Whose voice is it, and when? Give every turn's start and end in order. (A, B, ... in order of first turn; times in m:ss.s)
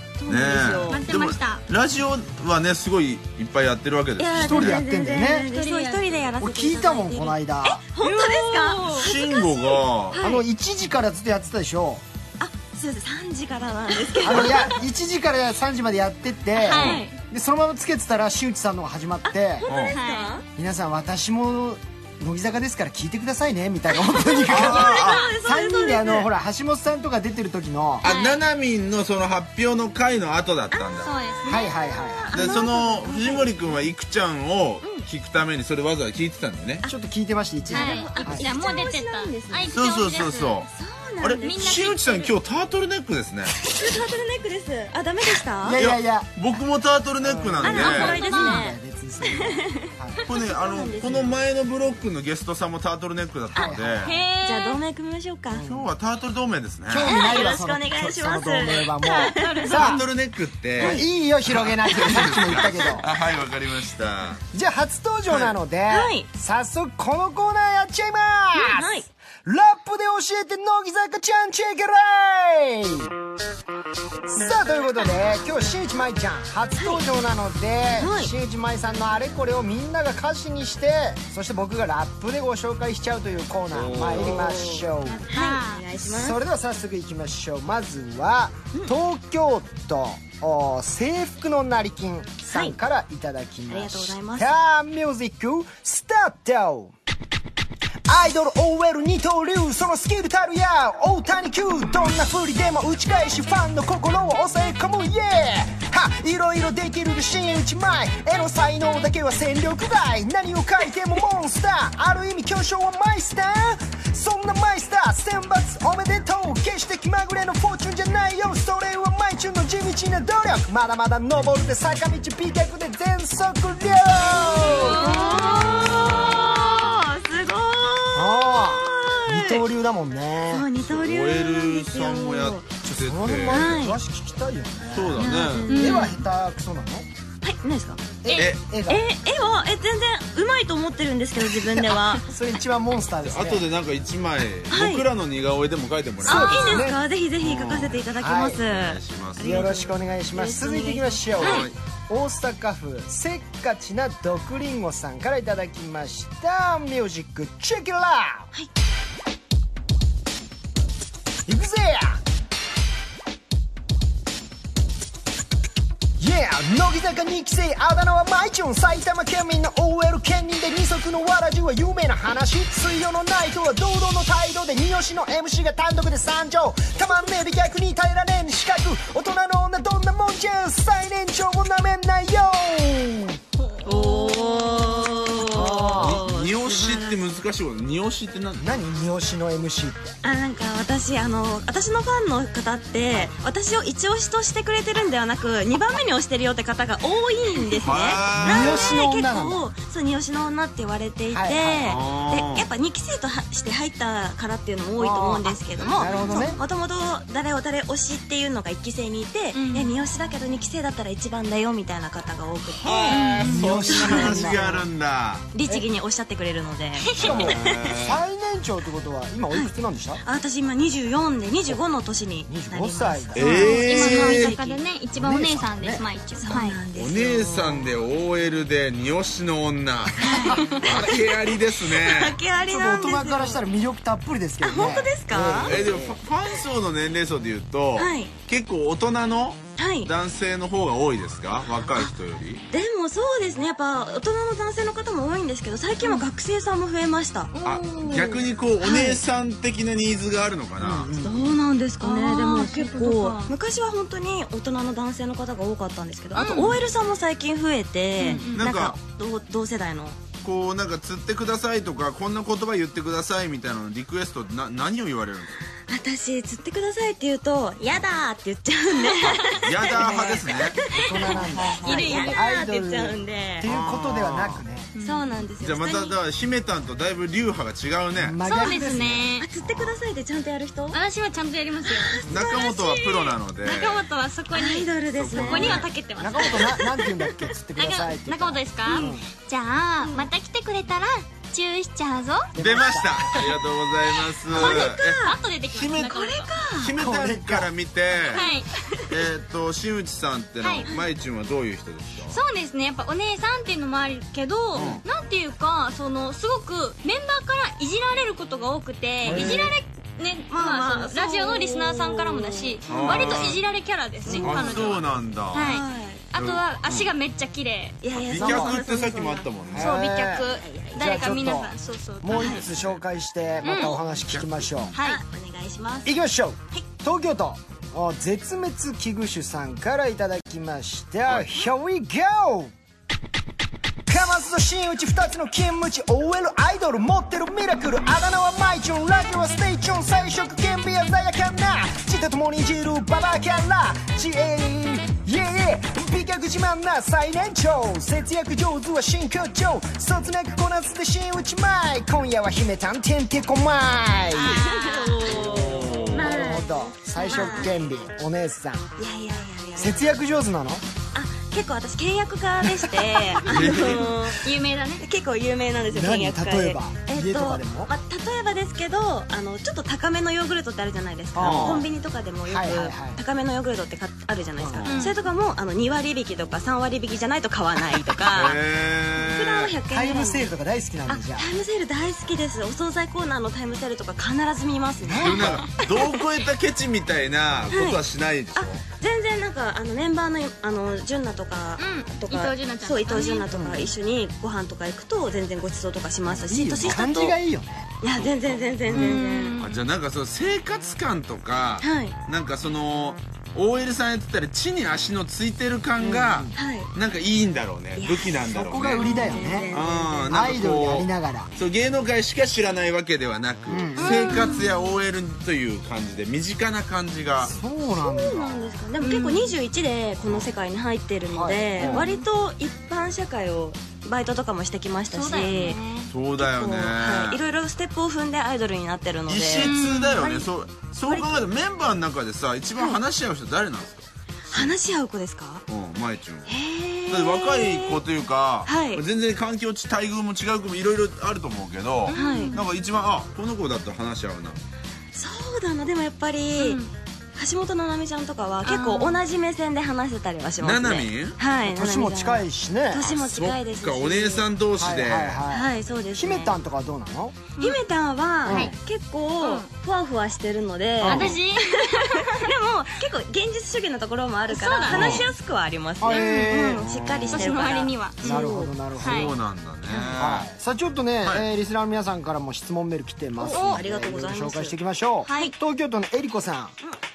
0:00.2-0:01.0 A
0:00.3-0:04.8 B
0:00.9-0:01.6 C
0:04.2-0:10.4 A
0:04.3-0:05.5 D
0:05.5-0:06.2 C
0:06.4-0:07.8 D
0:08.0-0:09.1 C
0:08.9-0:10.2 B
0:10.2-0:12.0 D
0:12.4-0:14.7 A
0:14.2-0:19.6 D
0:14.5-0:14.8 C
0:16.6-0:17.2 C
0:16.7-0:17.0 B
0:16.7-0:17.0 A
0:19.2-0:20.4 A
0:19.7-0:20.0 B
0:19.8-0:20.3 C
0:20.6-0:28.1 D
0:24.0-0:26.3 A
0:24.5-0:25.3 B
0:24.9-0:25.2 C
0:28.0-0:31.1 B
0:28.0-0:28.4 C
0:30.7-0:33.7 A
0:31.0-0:31.7 C
0:31.4-0:32.5 D
0:32.3-0:36.8 B
0:34.8-0:35.1 A
0:36.9-0:38.5 D
0:37.7-0:39.7 A
0:37.7-0:40.6 C
0:39.7-0:40.7 B
0:40.7-0:41.8 A
0:41.2-0:43.5 B
0:41.4-0:42.3 C
0:43.6-0:45.8 A
0:45.6-0:46.3 D
0:45.8-0:48.2 B
0:47.2-0:50.2 D
0:47.6-0:51.3 A
0:47.7-0:48.7 C
0:50.2-0:54.1 B
0:53.5-0:54.1 D
0:54.0-0:54.8 C
0:54.4-0:55.6 A
0:55.5-0:55.9 D
0:55.6-0:57.3 B
0:56.9-1:00.1 D
0:57.0-0:59.8 A
0:59.1-1:00.0 C
0:59.7-1:04.4 B
1:00.8-1:03.1 D
1:02.4-1:03.0 A
1:04.5-1:13.1 D
1:05.3-1:05.6 B
1:05.9-1:06.3 A
1:08.5-1:09.1 A
1:14.2-1:25.3 D
1:16.8-1:17.0 A
1:17.9-1:18.3 A
1:23.7-1:24.6 B
1:24.1-1:26.4 A
1:25.0-1:25.8 C
1:25.9-1:36.9 D
1:33.7-1:34.5 A
1:38.0-2:05.3 D
2:04.2-2:09.6 A
2:04.6-2:06.1 C
2:05.5-2:06.6 B
2:08.1-2:10.7 D
2:10.5-2:12.6 A
2:10.8-2:13.7 B
2:12.8-2:17.1 D
2:13.4-2:14.0 A
2:14.9-2:15.7 B
2:15.1-2:16.1 A
2:15.7-2:16.2 C
2:17.4-2:18.0 A
2:18.2-2:19.0 D
2:18.2-2:18.5 C
2:18.9-2:22.2 A
2:21.4-2:23.7 D
2:23.2-2:26.7 B
2:24.7-2:25.1 A
2:26.2-2:27.0 D
2:26.2-2:31.7 A
2:27.4-2:29.8 B
2:28.2-2:28.6 D
2:29.4-2:38.5 D
2:31.3-2:31.7 B
2:41.4-2:42.2 D
2:46.2-3:03.4 D
3:03.6-3:05.2 C
3:03.8-3:07.3 A
3:05.4-3:06.3 D
3:05.9-3:08.7 B
3:08.6-3:10.2 D
3:10.2-3:33.2 A
3:17.8-3:19.0 B
3:18.3-3:19.6 D
3:21.3-3:22.0 D
3:21.8-3:22.7 B
3:25.0-3:26.6 D
3:25.8-3:26.6 B
3:29.5-3:29.9 C
3:32.7-3:35.5 B
3:33.1-3:34.3 C
3:33.1-3:34.9 D
3:33.9-3:34.6 A
3:35.5-3:38.0 A
3:37.0-3:37.4 C
3:37.2-3:40.2 D
3:37.2-3:38.2 B
3:39.5-3:44.8 A
3:42.5-3:43.8 D
3:43.3-3:44.6 B
3:43.5-3:46.8 C
3:45.1-3:46.0 D
3:46.3-3:47.9 A
3:46.9-3:52.4 B
3:50.2-3:53.6 A
3:50.4-3:50.6 D
3:52.6-3:56.1 D
3:54.6-3:56.2 A
3:55.4-4:02.6 B
3:58.0-3:58.3 A
3:59.8-4:00.1 A
4:02.7-4:07.5 A
4:07.5-4:08.5 C
4:07.6-4:11.1 B
4:08.1-4:09.2 A
4:10.8-4:11.6 D
4:11.1-4:20.2 A
4:12.0-4:13.5 C
4:16.3-4:16.8 C
4:18.2-4:18.5 D
4:18.2-4:18.6 C
4:18.5-4:19.0 B
4:20.4-4:25.6 B
4:25.8-4:33.7 A
4:29.4-4:30.8 B
4:30.9-4:34.9 D
4:31.1-4:32.4 C
4:33.6-4:34.6 B
4:35.0-4:35.4 C
4:35.0-4:36.2 A
4:35.6-4:38.4 B
4:38.2-4:39.3 D
4:38.4-4:39.5 C
4:39.4-4:41.0 A
4:39.6-4:40.0 B
4:40.9-4:47.1 C
4:41.9-4:42.4 A
4:42.2-4:44.0 B
4:44.5-4:47.0 A
4:45.1-4:45.8 B
4:46.2-4:49.3 D
4:47.8-4:52.5 C
4:48.8-4:49.1 A
4:50.0-4:50.3 A
4:52.5-4:53.5 D
4:52.6-4:56.2 B
4:54.5-4:55.4 A
4:54.5-4:56.6 C
4:56.0-4:57.0 A
4:56.7-4:58.5 B
4:57.0-4:57.7 D
4:58.3-4:58.8 C
4:59.0-5:02.4 B
5:00.6-5:01.0 C
5:02.3-5:18.0 C
5:04.7-5:05.0 B
5:09.2-5:09.7 B
5:09.2-5:09.6 D
5:10.5-5:13.4 A
5:12.9-5:13.6 B
5:14.2-5:16.3 A
5:14.3-5:15.8 B
5:16.3-5:17.1 B
5:18.0-5:19.5 A
5:18.1-5:20.0 B
5:18.3-5:18.8 D
5:19.7-5:25.0 D
5:19.7-5:22.7 C
5:20.5-5:21.3 A
5:22.4-5:22.6 A
5:22.4-5:23.0 B
5:23.6-5:24.0 C
5:24.2-5:24.5 B
5:24.9-5:25.2 C
5:25.0-5:26.2 A
5:26.0-5:32.7 D
5:31.2-5:31.6 B
5:34.1-5:54.7 D
5:54.3-5:55.5 C
5:54.4-5:56.7 A
5:55.4-5:56.4 B
5:55.4-5:58.9 D
5:57.2-5:57.6 C
5:57.2-5:57.7 A
5:59.0-6:00.0 A
5:59.8-6:00.8 D
6:01.1-6:18.6 A
6:02.6-6:03.8 D
6:03.4-6:04.2 B
6:03.7-6:05.0 C
6:05.9-6:07.9 D
6:11.3-6:11.8 D
6:11.4-6:11.8 B
6:12.4-6:13.2 D
6:14.6-6:14.9 D
6:14.7-6:15.0 B
6:14.9-6:15.2 C
6:18.3-6:19.8 B
6:19.1-6:20.5 A
6:19.9-6:21.5 D
6:21.1-6:26.1 A
6:25.0-6:25.6 D
6:25.2-6:28.8 B
6:27.7-6:28.0 A
6:28.5-6:37.4 A
6:31.8-6:33.5 C
6:33.5-6:33.9 D
6:36.2-6:37.9 D
6:38.0-6:39.6 A
6:38.1-6:38.4 B
6:38.9-6:39.2 D
6:38.9-6:39.8 C
6:39.6-6:57.6 B
6:41.8-6:42.2 A
6:46.0-6:46.5 D
6:46.5-6:46.9 A
6:48.0-6:50.4 A
6:48.4-6:49.7 D
6:49.0-6:49.3 C
6:50.3-6:51.5 D
6:53.7-6:54.4 D
6:54.0-6:54.9 C
6:57.4-6:58.6 D
6:57.9-7:05.8 A
6:59.0-6:59.5 C
7:01.3-7:02.1 D
7:01.8-7:02.1 B
7:05.1-7:06.1 C
7:06.1-7:07.4 B
7:06.4-7:10.4 A
7:09.3-7:14.8 B
7:09.6-7:10.4 C
7:11.0-7:11.5 A
7:14.5-7:15.6 A
7:15.7-7:16.5 B
7:16.4-7:18.0 A
7:17.1-7:24.6 B
7:18.6-7:19.0 A
7:22.0-7:22.7 C
7:22.1-7:22.6 A
7:25.1-7:26.8 A
7:26.6-7:26.9 C
7:27.3-7:34.5 A
7:28.6-7:29.2 C
7:30.6-7:31.4 B
7:31.6-7:33.0 D
7:33.0-7:35.4 B
7:34.8-7:37.4 D
7:35.5-7:36.5 A
7:37.6-7:48.7 A
7:38.4-7:38.8 D
7:38.4-7:38.7 C
7:39.4-7:39.7 C
7:41.0-7:41.4 D
7:41.0-7:42.5 C
7:44.5-7:45.2 C
7:44.9-7:45.3 B
7:46.0-7:46.9 D
7:46.1-7:46.8 C
7:46.8-7:47.6 B
7:47.3-7:48.5 C
7:48.2-7:49.4 D
7:49.0-7:50.5 B
7:49.0-7:49.4 C
7:50.1-7:56.7 D
7:53.4-7:54.8 A
7:55.3-7:55.5 C